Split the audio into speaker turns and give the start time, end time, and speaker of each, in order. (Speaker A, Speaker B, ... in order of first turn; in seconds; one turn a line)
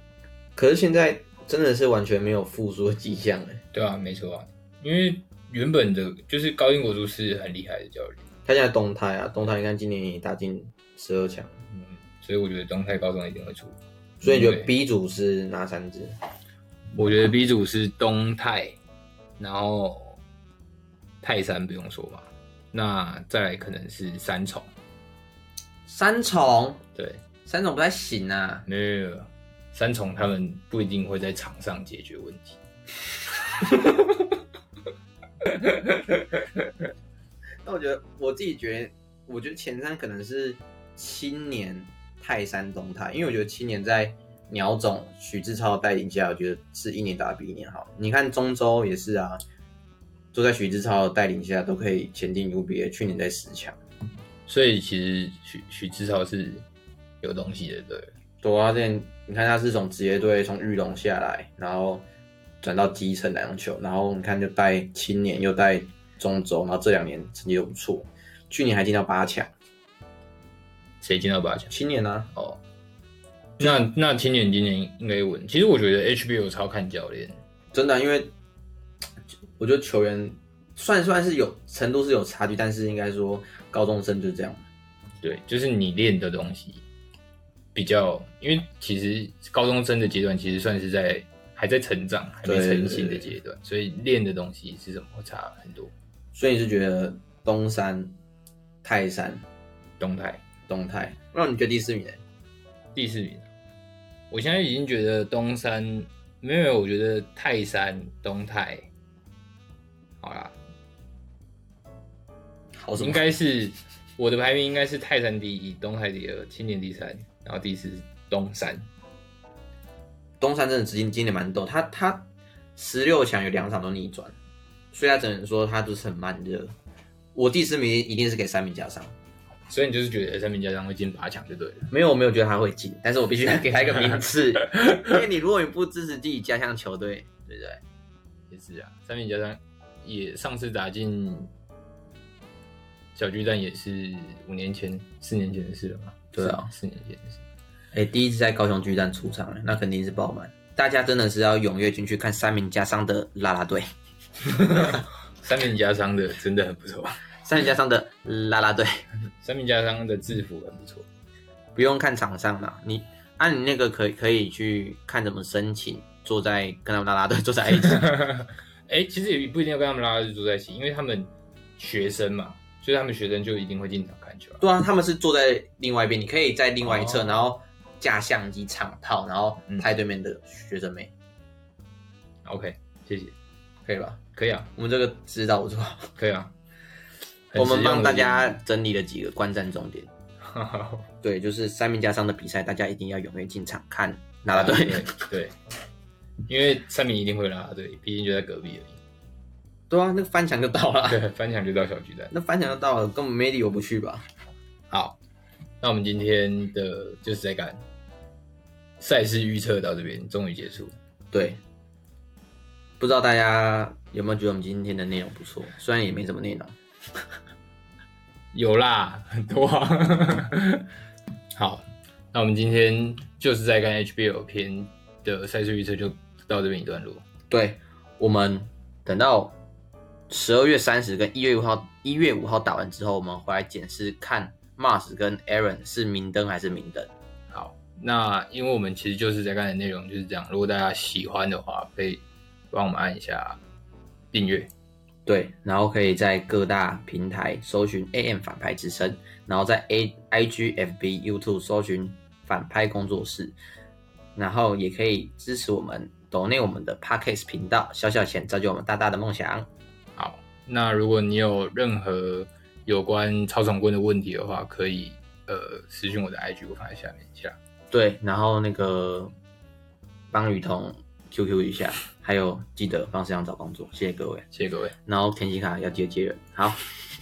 Speaker A: 0.6-3.6
Speaker B: 3.7-8.2
Speaker A: 8.4-11.5
Speaker B: 11.7-14.7
Speaker A: 14.2-16.1
Speaker B: 16.9-18.8
Speaker B: 19.4-20.2
Speaker B: 21.2-24.7
Speaker A: 25.9-26.8
Speaker B: 26.9-27.2
Speaker A: 27.4-28.6
Speaker B: 28.7-32.6
Speaker B: 33.4-34.3
Speaker B: 35.4-36.7
Speaker A: 37.6-49.4
Speaker A: 50.3-53.8
Speaker B: 54.5-56.6
Speaker B: 57.2-58.1
Speaker A: 58.4-62.0
Speaker A: 62.6-69.5
Speaker B: 71.0-71.7
Speaker A: 71.7-72.3
Speaker B: 72.3-72.6
Speaker B: 73.6-77.4
Speaker A: 77.7-78.3
Speaker A: 79.6-84.7
Speaker B: 85.2-86.8
Speaker B: 87.7-95.9
Speaker A: 92.4-93.3
Speaker A: 96.3-98.1
Speaker A: 98.8-99.4
Speaker B: 100.0-100.4
Speaker A: 100.7-102.2
Speaker B: 102.9-103.5
Speaker B: 104.3-108.9
Speaker B: 110.2-110.5
Speaker A: 112.8-113.2
Speaker B: 113.0-118.9
Speaker A: 120.4-124.3
Speaker A: 124.9-126.7
Speaker A: 127.3-129.1
Speaker B: 129.7-131.9
Speaker A: 131.9-137.8
Speaker B: 134.8-135.2
Speaker B: 138.5-141.5
Speaker B: 143.1-147.4
Speaker A: 146.3-146.7
Speaker A: 147.9-153.9
Speaker B: 154.5-157.2
Speaker A: 157.4-159.0
Speaker B: 159.4-161.1
Speaker A: 161.7-168.1
Speaker B: 167.9-174.6
Speaker A: 174.6-181.1
Speaker B: 176.8-177.4
Speaker B: 182.4-183.3
Speaker A: 183.8-184.2
Speaker B: 184.3-184.7
Speaker A: 184.8-186.1
Speaker B: 186.2-186.5
Speaker B: 187.5-188.6
Speaker A: 187.6-190.1
Speaker B: 190.4-191.1
Speaker A: 191.2-195.1
Speaker B: 194.5-195.5
Speaker B: 196.5-199.0
Speaker A: 199.9-201.2
Speaker B: 201.1-202.3
Speaker A: 202.3-204.2
Speaker B: 204.9-205.2
Speaker B: 205.8-207.8
Speaker B: 209.0-210.9
Speaker A: 211.3-211.6
Speaker A: 213.0-216.8
Speaker B: 218.5-220.8
Speaker B: 221.5-227.2
Speaker A: 227.5-229.6
Speaker A: 230.3-237.1
Speaker B: 237.5-243.6
Speaker B: 244.3-244.7
Speaker A: 245.2-253.6
Speaker A: 254.3-259.7
Speaker B: 260.1-267.6
Speaker A: 267.9-269.3
Speaker A: 270.3-274.4
Speaker B: 274.5-274.9
Speaker A: 275.1-276.9